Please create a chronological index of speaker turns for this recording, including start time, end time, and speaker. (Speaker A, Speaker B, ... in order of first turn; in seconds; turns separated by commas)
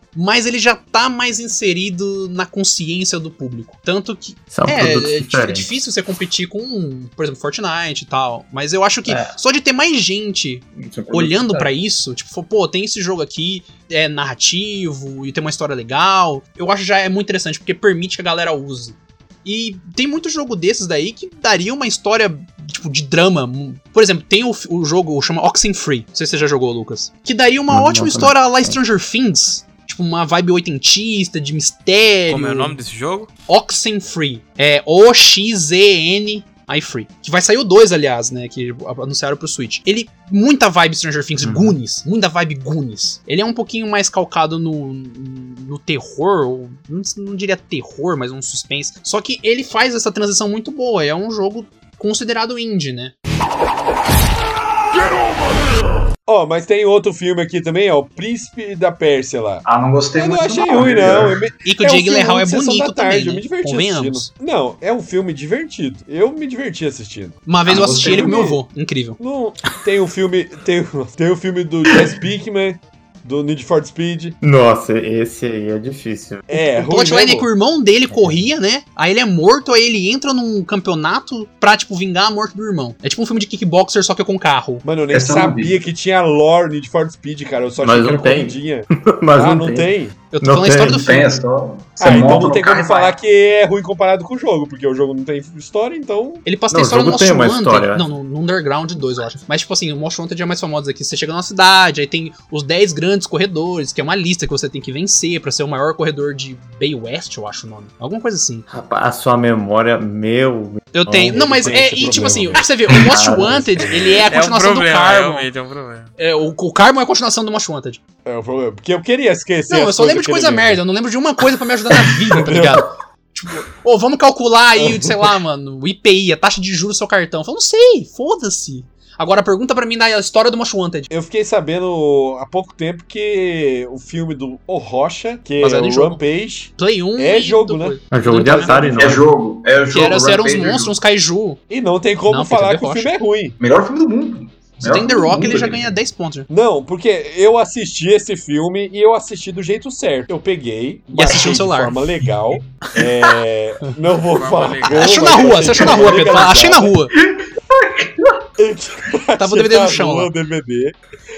Speaker A: 0.1-32.8, Speaker B: 4.5-5.9, Speaker B: 9.1-9.3, Speaker B: 10.8-11.8, Speaker B: 27.7-28.8, Speaker C: 32.3-33.3, Speaker A: 33.5-53.1, Speaker B: 41.4-41.8, Speaker D: 56.2-67.5, Speaker E: 59.6-61.4, Speaker A: 61.6-64.3, Speaker A: 67.5-69.2, Speaker E: 67.7-68.4, Speaker D: 68.1-68.6, Speaker D: 69.2-74.4, Speaker B: 74.4-76.6, Speaker D: 76.5-77.5, Speaker A: 76.7-84.8, Speaker B: 78.1-78.5, Speaker D: 84.8-90.2, Speaker E: 85.1-85.8, Speaker B: 87.8-91.2, Speaker A: 90.3-91.4, Speaker E: 90.8-93.2, Speaker D: 92.0-96.5, Speaker A: 96.5-108.7, Speaker B: 96.7-98.1, Speaker B: 108.7-114.1, Speaker A: 110.9-115.5, Speaker D: 111.3-112.8, Speaker D: 113.7-114.2, Speaker C: 114.3-116.1, Speaker A: 116.2-118.0, Speaker D: 118.2-120.8, Speaker A: 119.7-131.1, Speaker D: 122.3-122.9, Speaker D: 124.8-125.3, Speaker D: 131.1-139.1, Speaker A: 135.6-136.2, Speaker A: 136.8-139.1, Speaker B: 138.1-139.3, Speaker E: 139.0-141.0, Speaker A: 139.9-141.6, Speaker D: 141.7-143.6, Speaker A: 142.3-143.2, Speaker E: 143.6-145.9, Speaker A: 144.8-146.5, Speaker D: 146.5-157.0, Speaker A: 151.1-152.0, Speaker C: 154.3-155.5, Speaker A: 154.9-157.1, Speaker E: 155.7-156.5, Speaker E: 157.2-158.4, Speaker D: 158.6-161.0, Speaker A: 159.4-160.3